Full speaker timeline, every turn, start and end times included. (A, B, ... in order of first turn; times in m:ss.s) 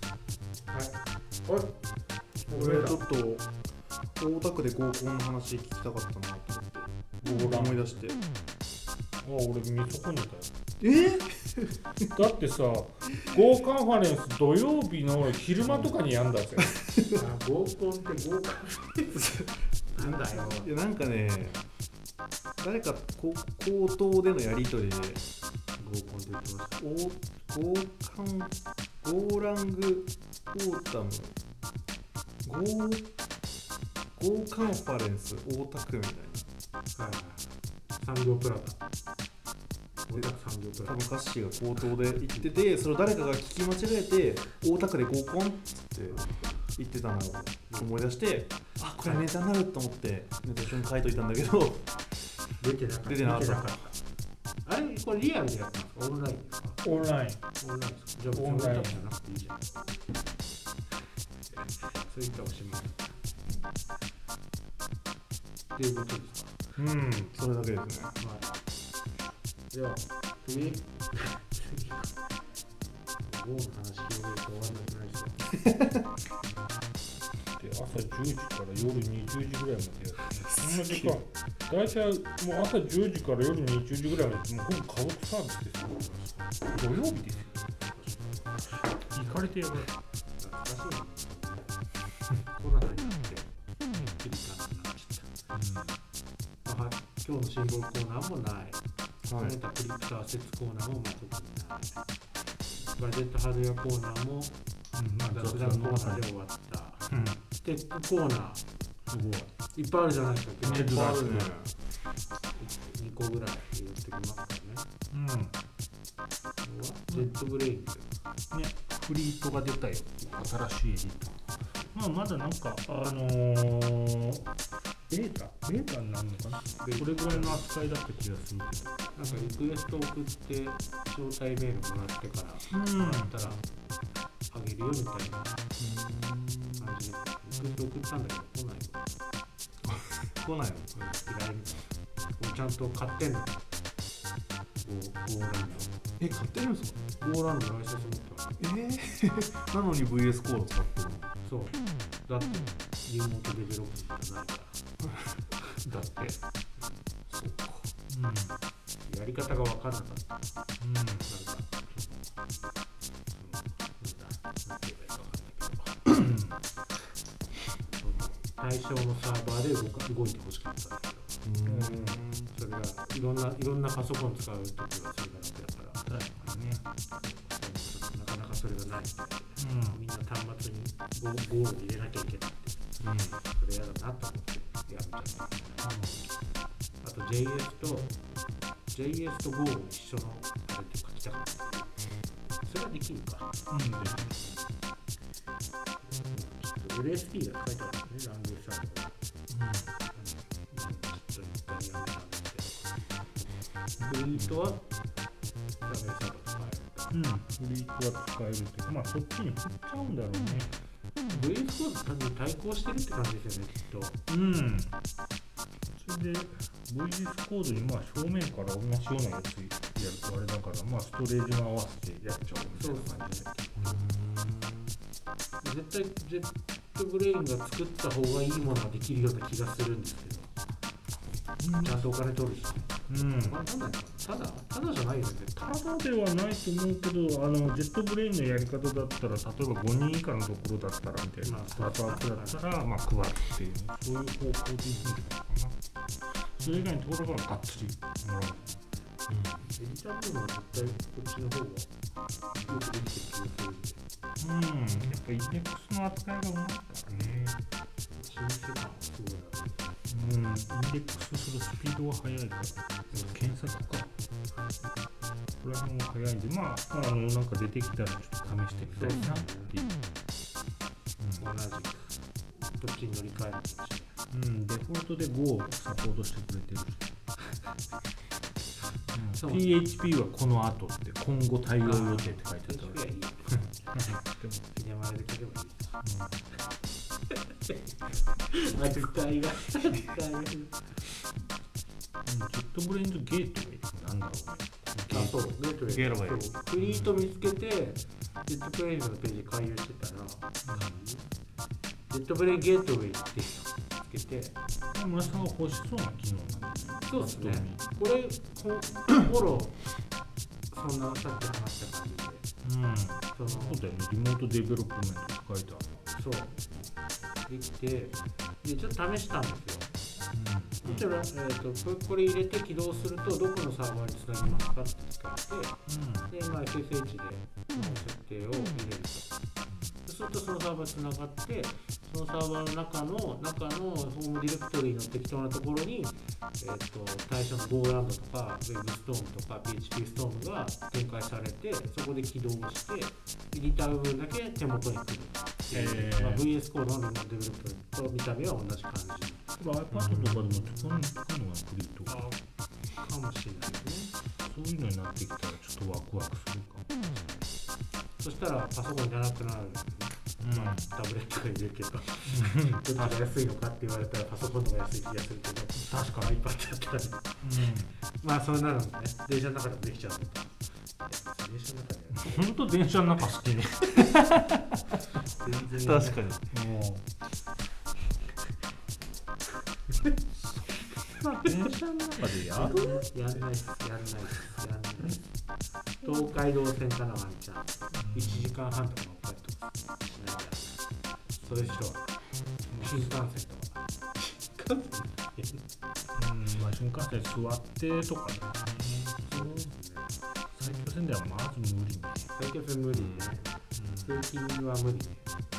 0:00.7-0:01.8 A
0:02.5-0:03.1 A
0:02.5-0:03.5 B
0:04.2-0:08.2 B
0:07.2-0:08.0 C
0:09.2-0:10.5 C
0:10.8-0:12.1 B
0:12.1-0:16.9 C
0:17.1-0:19.4 A
0:19.1-0:21.6 B
0:19.9-0:20.7 A
0:22.6-0:25.2 B
0:25.8-0:26.8 A
0:26.8-0:31.4 B
0:32.4-0:33.1 B
0:34.2-0:36.5 B
0:36.9-0:38.8 A
0:40.0-0:41.0 A
0:40.8-0:52.0 B
0:49.0-0:49.2 A
0:52.6-0:54.0 A
0:53.0-0:53.9 B
0:54.6-0:56.8 A
0:56.8-0:57.4 C
0:57.6-0:59.7 A
0:58.3-0:59.0 C
1:01.5-1:03.2 A
1:05.7-1:06.5 A
1:06.8-1:07.3 C
1:07.3-1:08.2 B
1:08.2-1:08.5 A
1:09.7-1:12.1 A
1:13.3-1:15.5 A
1:15.6-1:16.0 B
1:17.6-1:27.8 C
1:20.6-1:21.1 B
1:29.1-1:29.9 C
1:30.4-1:31.8 A
1:32.4-1:35.3 A
1:35.5-1:36.0 C
1:36.6-1:38.8 A
1:39.2-1:39.6 B
1:39.3-1:42.0 A
1:42.9-1:44.6 A
1:45.0-1:46.3 C
1:45.2-1:48.6 A
1:47.1-1:47.4 C
1:49.1-1:49.5 C
1:49.7-1:51.0 A
1:50.6-1:51.5 C
1:50.7-1:51.7 B
1:52.6-1:54.8 A
1:55.1-1:55.5 C
1:56.6-1:58.1 A
1:58.5-2:04.4 C
2:05.1-2:08.9 C
2:06.8-2:07.6 A
2:09.1-2:13.6 A
2:12.7-2:13.3 C
2:14.5-2:15.6 A
2:15.8-2:16.9 B
2:16.8-2:19.0 A
2:19.8-2:20.9 B
2:20.9-2:23.6 A
2:24.8-2:26.0 A
2:26.2-2:27.0 B
2:27.2-2:28.6 A
2:28.6-2:31.3 B
2:31.4-2:34.8 A
2:35.8-2:36.4 C
2:37.3-2:37.9 B
2:38.1-2:38.6 C
2:39.1-2:40.5 A
2:40.8-2:41.3 C
2:41.3-2:42.4 A
2:43.4-2:46.1 A
2:46.1-2:46.6 C
2:48.0-2:51.4 A
2:51.4-2:52.5 B
2:51.6-2:52.2 C
2:52.5-3:05.9 A
2:56.0-2:56.8 C
2:59.6-3:00.0 C
3:03.0-3:03.4 B
3:05.8-3:06.3 C
3:07.0-3:08.2 A
3:08.9-3:11.9 A
3:12.6-3:13.6 A
3:13.7-3:14.4 C
3:14.1-3:14.6 A
3:16.0-3:19.1 A
3:19.5-3:19.9 C
3:20.1-3:22.9 A
3:24.0-3:24.8 A
3:24.0-3:24.5 C
3:25.8-3:27.2 A
3:27.1-3:30.7 C
3:31.3-3:34.2 A
3:34.3-3:35.0 C
3:35.9-3:43.4 C
3:42.7-3:44.0 A
3:43.8-3:45.0 B
3:45.6-3:50.5 A
3:51.6-3:52.1 B
3:51.8-3:55.7 A
3:53.1-3:53.6 C
3:55.6-4:05.8 C
4:01.4-4:02.6 A
4:06.6-4:08.8 C
4:09.3-4:09.7 B
4:09.7-4:11.9 A
4:12.6-4:14.0 A
4:14.4-4:17.6 C
4:17.1-4:17.5 A
4:18.1-4:19.9 A
4:20.1-4:24.1 C
4:23.1-4:23.5 A
4:25.6-4:30.0 C
4:28.9-4:29.7 A
4:31.2-4:31.5 C
4:31.4-4:32.2 A
4:32.7-4:34.2 A
4:34.3-4:37.1 C
4:39.1-4:44.6 C
4:39.3-4:39.8 A
4:41.8-4:44.1 A
4:44.7-4:46.0 A
4:46.0-4:46.4 C
4:47.3-4:47.8 A
4:48.5-4:50.8 A
4:52.2-4:55.5 C
4:55.1-5:01.2 A
4:55.9-4:56.5 B
4:56.8-4:57.1 C
5:00.6-5:01.0 C
5:02.1-5:04.6 A
5:04.9-5:07.8 C
5:07.1-5:09.8 A
5:10.7-5:12.5 A
5:12.6-5:16.0 C
5:13.3-5:13.8 A
5:16.1-5:16.7 A
5:17.5-5:19.9 A
5:20.3-5:20.8 C
5:20.8-5:29.3 A
5:25.9-5:26.3 C
5:29.7-5:30.0 C
5:30.0-5:49.4 A
5:45.7-5:46.5 C
5:49.6-5:52.3 C
5:49.9-5:50.4 B
5:52.1-5:52.4 A
5:52.9-5:54.1 A
5:54.4-5:56.9 C
5:57.0-5:57.5 A
5:58.2-6:12.5 A
6:00.4-6:00.9 C
6:02.2-6:03.3 C
6:05.9-6:06.3 C
6:07.4-6:08.0 C
6:12.1-6:14.2 C
6:14.0-6:14.8 B
6:15.4-6:16.2 A
6:15.5-6:16.5 B
6:16.5-6:17.0 C
6:20.4-6:23.0 C
6:22.5-6:25.3 A
6:22.6-6:23.0 B
6:26.0-6:30.8 A
6:27.9-6:28.5 C
6:31.4-6:32.1 A
6:32.7-6:33.2 C
6:32.7-6:35.6 A
6:36.2-6:39.7 C
6:39.3-6:40.1 A
6:40.5-6:42.3 C
6:42.3-6:43.5 A
6:42.9-6:43.4 B
6:43.7-6:44.2 C
6:44.0-6:45.2 A